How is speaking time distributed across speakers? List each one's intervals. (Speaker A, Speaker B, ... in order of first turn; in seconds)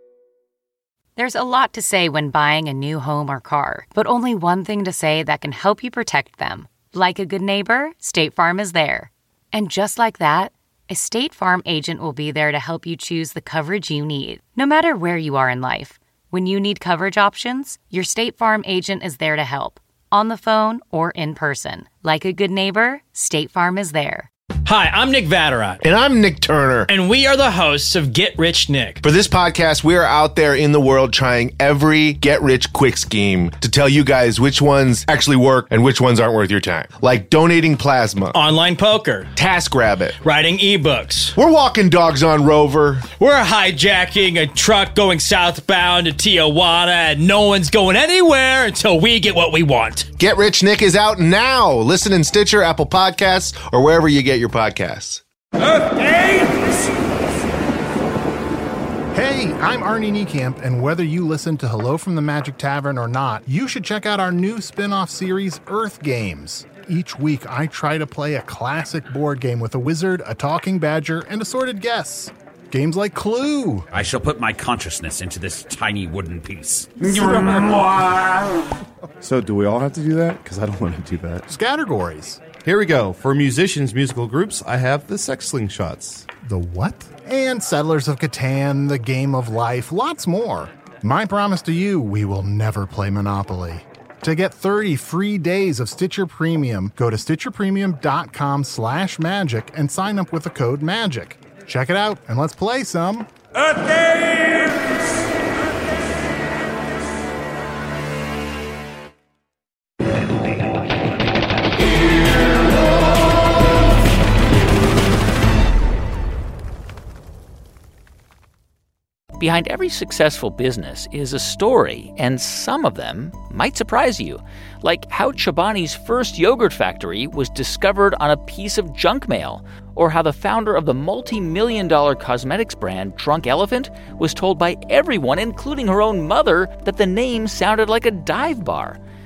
Speaker A: 1.1-24.3
Speaker B: 24.6-25.8, 26.9-29.0, 38.3-39.3, 40.2-41.4, 43.1-50.1
Speaker C: 25.8-26.9, 29.0-38.4, 39.3-40.2, 41.4-43.1, 50.2-55.2
Speaker D: 59.1-73.8, 81.5-82.4, 86.4-103.3
Speaker E: 73.9-77.8
Speaker F: 79.2-81.4, 82.6-86.2
Speaker G: 119.4-139.0